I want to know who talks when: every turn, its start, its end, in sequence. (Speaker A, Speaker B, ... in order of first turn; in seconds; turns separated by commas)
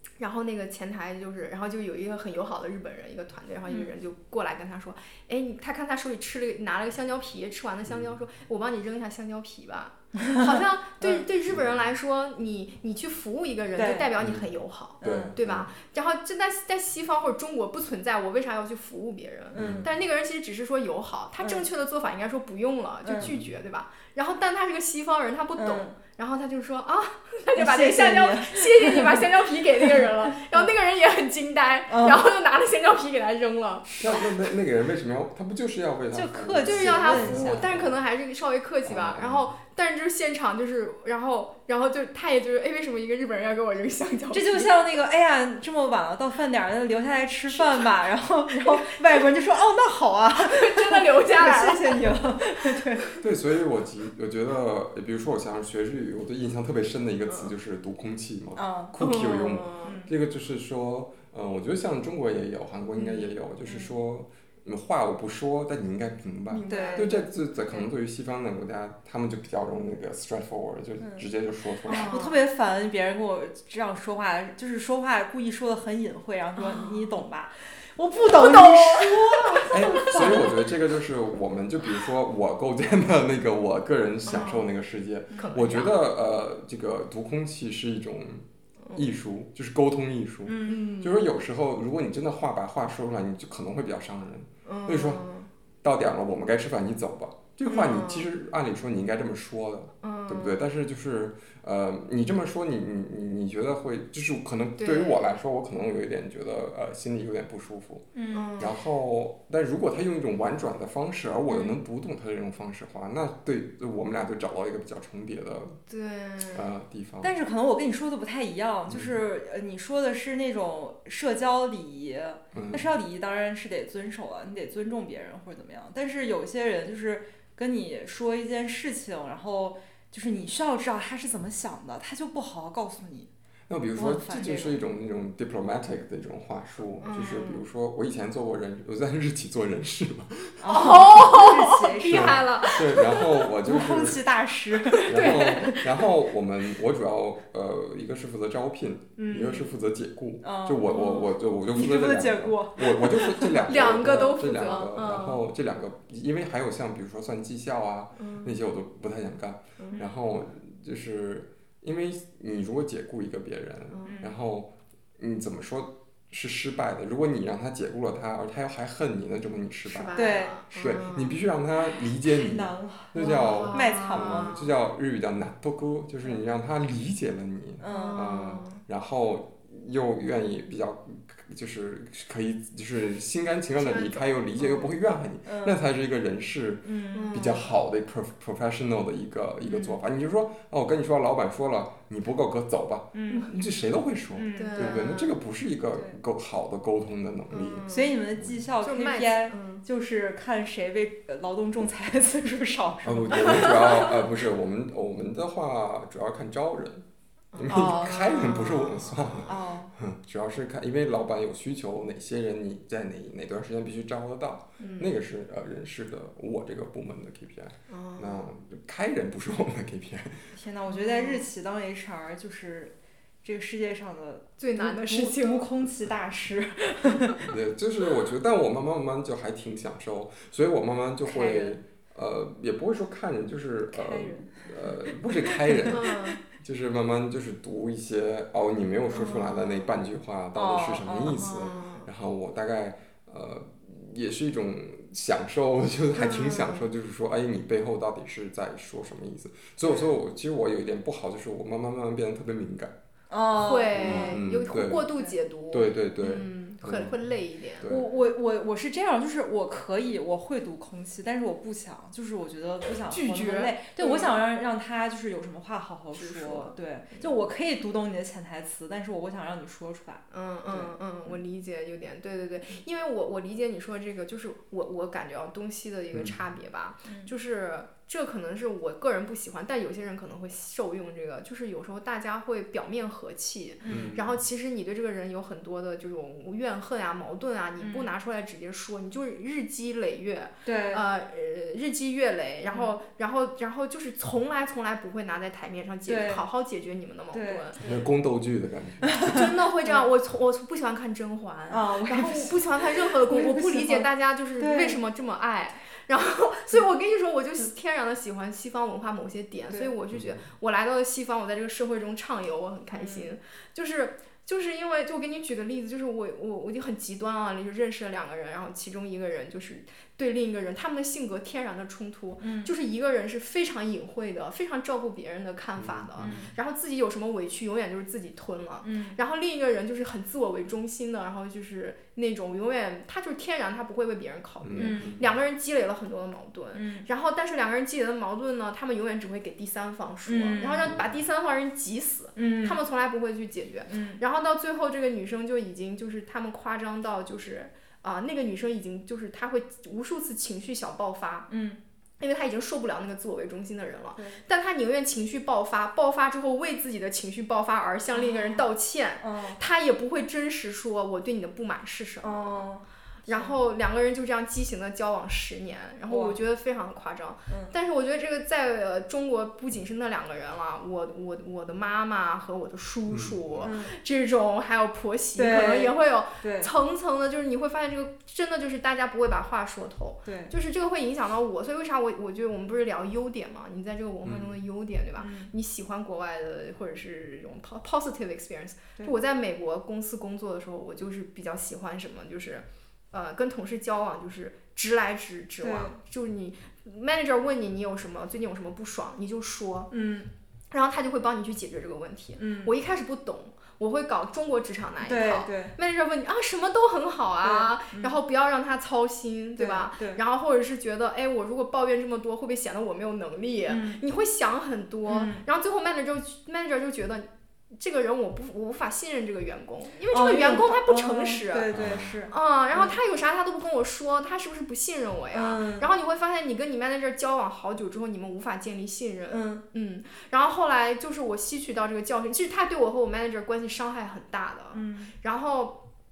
Speaker A: 0.2-34.2, Speaker B: 7.8-8.2, Speaker C: 10.2-11.2, Speaker B: 11.5-11.8, Speaker C: 13.8-14.1, Speaker B: 14.2-14.4, Speaker C: 15.0-15.3, Speaker B: 15.0-15.7, Speaker C: 19.5-19.9, Speaker B: 19.5-19.9, Speaker C: 21.4-21.6, Speaker C: 23.0-23.3, Speaker B: 23.2-23.5, Speaker C: 25.6-25.9, Speaker C: 27.6-30.7, Speaker C: 31.9-32.2, Speaker B: 34.0-37.9, Speaker C: 36.1-37.7, Speaker A: 36.6-44.7, Speaker B: 38.8-39.5, Speaker C: 44.3-53.2, Speaker A: 47.5-47.9, Speaker A: 48.6-49.0, Speaker A: 50.4-52.1, Speaker B: 53.2-72.1, Speaker A: 57.3-57.5, Speaker C: 58.6-59.0, Speaker A: 59.0-60.0, Speaker C: 59.8-60.1, Speaker C: 63.0-63.9, Speaker A: 66.5-67.2, Speaker C: 66.6-67.9, Speaker C: 71.0-71.3, Speaker C: 71.8-80.5, Speaker A: 71.9-72.4, Speaker A: 76.6-77.1, Speaker A: 78.2-80.6, Speaker B: 79.7-95.2, Speaker A: 84.3-84.7, Speaker A: 85.3-86.0, Speaker C: 90.5-90.8, Speaker A: 90.6-91.2, Speaker A: 94.6-95.5, Speaker B: 95.8-108.0, Speaker A: 97.7-98.3, Speaker A: 100.0-100.7, Speaker A: 104.8-105.4, Speaker C: 108.1-108.6, Speaker A: 108.3-108.7, Speaker B: 108.6-115.8, Speaker A: 115.9-116.7, Speaker B: 116.5-117.3, Speaker C: 117.2-133.3, Speaker B: 118.9-119.2, Speaker B: 122.5-122.9, Speaker B: 133.7-141.1, Speaker C: 133.9-134.8, Speaker A: 137.0-137.6, Speaker C: 140.6-146.0, Speaker A: 140.7-143.3, Speaker B: 142.1-144.2, Speaker A: 144.8-145.7, Speaker B: 145.0-170.2, Speaker C: 149.2-149.8, Speaker C: 150.4-154.8, Speaker A: 153.7-155.4, Speaker A: 158.2-158.6, Speaker A: 159.8-160.0, Speaker A: 163.9-164.2, Speaker C: 164.1-164.3, Speaker A: 169.9-171.4, Speaker C: 170.1-170.6, Speaker B: 170.7-197.8, Speaker C: 171.9-174.7, Speaker A: 173.2-174.5, Speaker C: 177.8-178.6, Speaker A: 177.8-178.8, Speaker A: 183.8-184.9, Speaker C: 185.4-185.8, Speaker C: 186.8-187.4, Speaker A: 187.1-187.7, Speaker A: 189.7-190.0, Speaker C: 193.1-193.5, Speaker C: 194.3-195.3, Speaker A: 194.6-195.3, Speaker A: 197.5-198.2, Speaker C: 197.9-204.1, Speaker A: 198.8-199.8, Speaker B: 203.0-207.0, Speaker A: 203.3-204.1, Speaker A: 207.5-209.4, Speaker B: 207.6-220.5, Speaker C: 207.7-208.7, Speaker C: 209.4-209.9, Speaker A: 214.8-215.1, Speaker A: 217.9-218.4, Speaker C: 220.5-227.4, Speaker A: 220.9-221.5, Speaker A: 224.6-225.7, Speaker A: 227.1-227.4, Speaker B: 227.4-252.9, Speaker C: 231.2-231.8, Speaker C: 233.9-236.2, Speaker A: 235.9-236.4, Speaker A: 239.1-239.9, Speaker C: 240.5-241.6, Speaker A: 241.2-242.1, Speaker A: 246.1-246.9, Speaker C: 253.3-254.4, Speaker A: 253.5-257.9, Speaker B: 253.9-255.1, Speaker B: 255.7-257.2, Speaker B: 257.8-258.1, Speaker C: 257.8-271.3, Speaker A: 263.1-264.3, Speaker A: 266.1-267.3, Speaker A: 270.3-297.8, Speaker C: 277.0-277.3, Speaker C: 283.8-284.1, Speaker B: 283.8-284.4, Speaker C: 287.8-288.1, Speaker C: 290.6-291.0, Speaker C: 292.7-292.9, Speaker C: 296.1-296.4, Speaker C: 297.3-297.7, Speaker B: 297.8-299.2, Speaker C: 299.1-300.1, Speaker A: 299.2-351.5, Speaker C: 301.7-305.0, Speaker B: 310.1-310.5, Speaker C: 312.9-313.3, Speaker C: 322.4-322.7, Speaker B: 325.8-326.4, Speaker C: 326.2-326.5, Speaker C: 328.8-329.2, Speaker B: 334.6-335.2, Speaker C: 334.8-335.2, Speaker C: 336.7-337.1, Speaker C: 340.2-340.9, Speaker B: 340.8-341.1, Speaker C: 342.4-342.8, Speaker C: 343.9-344.2, Speaker C: 351.5-351.8, Speaker A: 352.2-362.5, Speaker C: 354.1-354.4, Speaker C: 358.1-358.7, Speaker C: 359.2-359.6, Speaker C: 362.2-363.6, Speaker A: 363.3-399.9, Speaker C: 366.1-366.4, Speaker C: 367.5-367.7, Speaker B: 373.1-373.7, Speaker C: 373.6-373.9, Speaker C: 375.4-376.7, Speaker C: 380.2-380.5, Speaker B: 384.2-384.6, Speaker C: 385.2-385.5, Speaker C: 395.6-396.0, Speaker C: 399.9-400.3, Speaker A: 400.7-421.7, Speaker C: 402.4-402.7, Speaker C: 405.0-405.7, Speaker C: 407.4-408.1, Speaker C: 409.6-410.2, Speaker C: 413.7-414.0, Speaker C: 415.1-415.4, Speaker C: 420.1-423.0, Speaker B: 421.7-422.2, Speaker A: 422.3-435.8, Speaker C: 425.3-425.9, Speaker C: 429.3-429.6, Speaker C: 434.7-435.1